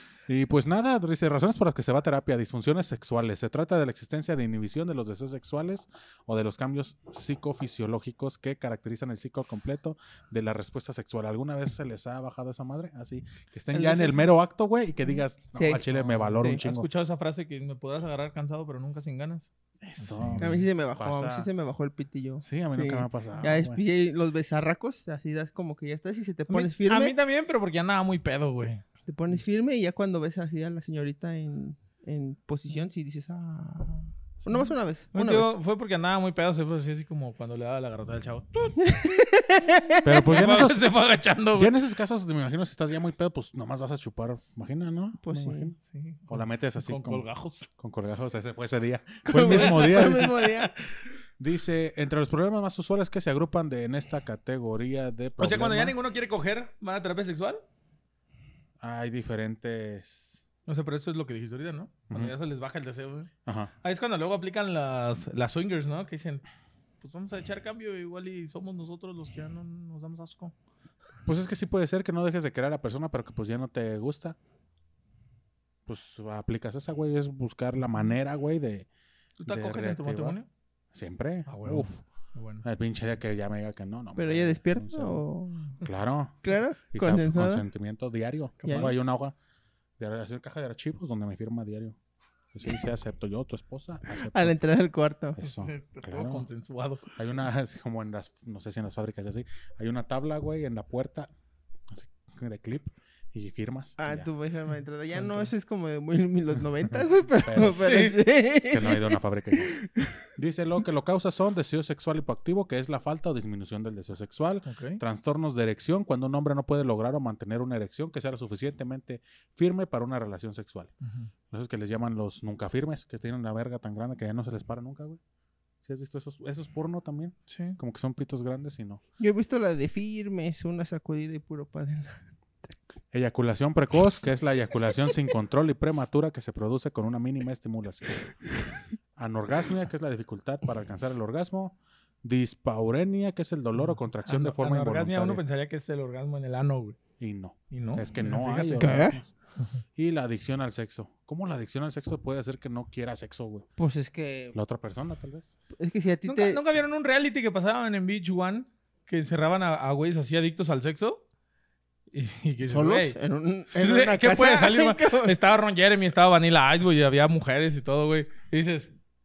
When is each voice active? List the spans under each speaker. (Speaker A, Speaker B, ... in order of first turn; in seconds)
Speaker A: 0.3-16.9, 19.8-21.5, 22.4-23.8, 40.0-40.8, 41.5-45.8, 46.3-47.2, 47.8-50.4, 51.4-56.0, 58.8-60.4, 63.5-63.7, 71.2-74.4, 75.9-78.9, 79.5-80.4, 80.9-82.0, 82.6-85.2, 85.8-86.4, 86.9-89.3, 90.0-92.0, 92.5-94.5, 95.4-96.5, 97.2-101.3, 101.9-104.3, 106.9-107.8, 108.6-109.7, 110.3-120.9, 121.5-125.2, 125.8-129.0, 133.1-138.2, 139.2-145.4, 147.2-149.3, 149.9-153.7, 154.5-155.5
Speaker B: 13.7-14.3, 15.9-20.6, 26.5-28.8, 34.5-38.8, 40.1-41.7, 45.9-47.7, 49.5-50.9, 55.4-57.6, 60.7-63.3, 63.8-66.4, 67.0-70.5, 79.4-80.5, 81.5-82.6, 88.6-89.0, 95.4-97.1, 105.1-105.5, 107.6-108.2, 114.7-115.0, 121.0-121.3, 127.5-127.8, 143.8-147.0, 147.7-149.0, 156.2-161.2, 162.1-163.2, 163.7-168.9
Speaker C: 15.5-15.8, 20.4-27.1, 29.1-35.5, 38.8-40.3, 45.2-45.7, 49.2-50.7, 84.2-85.8, 86.4-87.6, 88.6-88.9, 94.2-95.4, 104.0-110.2, 129.2-132.2, 148.7-149.2, 153.8-154.5, 155.8-156.6, 162.6-165.3